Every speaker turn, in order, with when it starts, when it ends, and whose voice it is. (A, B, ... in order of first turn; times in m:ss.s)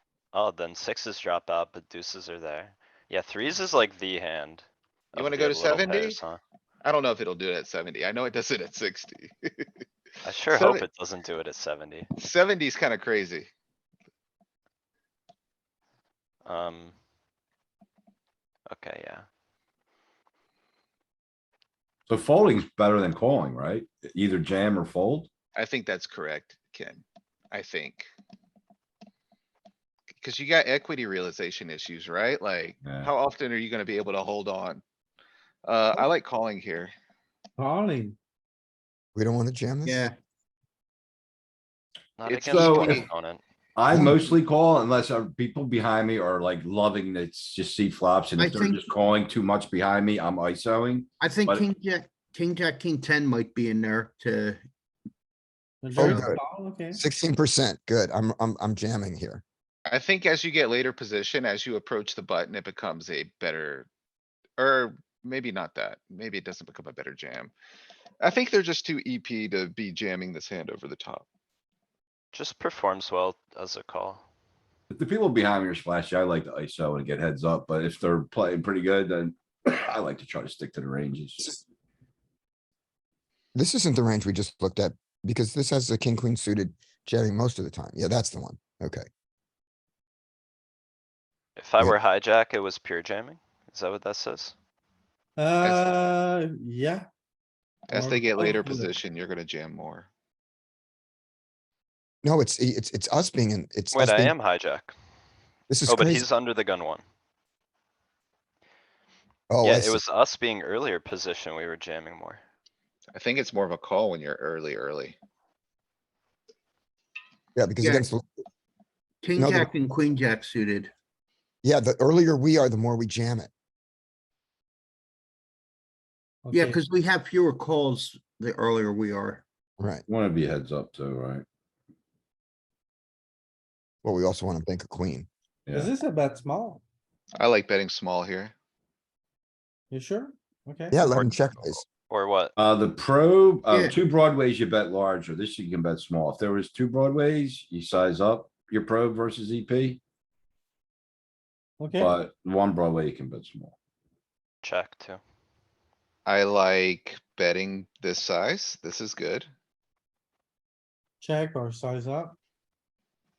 0:00.3-0:06.4 A
0:05.2-0:06.2 B
0:06.8-0:09.7 B
0:10.2-0:12.1 A
0:10.5-0:10.8 B
0:12.2-0:13.5 B
0:16.4-0:16.9 A
0:18.7-0:19.2 A
0:22.1-0:25.3 C
0:25.5-0:28.1 B
0:30.2-0:34.8 B
0:32.8-0:33.1 C
0:35.6-0:36.9 B
0:37.6-0:38.2 D
0:39.1-0:40.1 E
0:39.8-0:40.2 F
0:42.2-0:43.4 A
0:42.3-0:43.1 B
0:42.4-0:43.0 C
0:43.8-0:51.7 C
0:43.9-0:44.3 E
0:48.4-0:48.9 F
0:51.2-0:54.6 F
0:55.8-0:57.0 D
0:56.0-0:56.4 E
0:56.0-0:56.3 F
0:56.9-0:59.4 E
0:59.8-1:03.9 B
1:04.6-1:07.5 B
1:08.2-1:11.2 B
1:12.3-1:14.2 A
1:14.9-1:21.6 C
1:23.5-1:29.0 E
1:31.6-1:34.5 A
1:35.4-1:37.1 D
1:35.6-1:36.0 B
1:37.9-1:40.1 B
1:37.9-1:38.9 D
1:42.2-1:44.3 E
1:43.9-1:44.9 A
1:45.7-1:46.3 E
1:45.9-1:47.0 A
1:49.5-1:50.0 E
1:49.6-1:52.4 A
1:53.1-1:55.2 B
1:57.6-1:58.2 E
1:57.8-1:58.1 F
1:59.2-2:00.9 F
1:59.4-1:59.7 E
2:01.6-2:03.5 E
2:06.4-2:06.8 D
2:06.5-2:09.4 F
2:09.8-2:10.0 E
2:10.1-2:11.4 C
2:14.0-2:15.3 E
2:15.6-2:15.9 C
2:15.7-2:16.8 D
2:17.4-2:18.5 B
2:19.9-2:21.0 D
2:20.9-2:21.8 E
2:21.0-2:22.5 A
2:22.6-2:30.0 C
2:23.7-2:24.0 F
2:31.8-2:32.1 D
2:31.9-2:33.8 C
2:34.6-2:35.2 A
2:36.2-2:39.5 B
2:41.2-2:42.4 D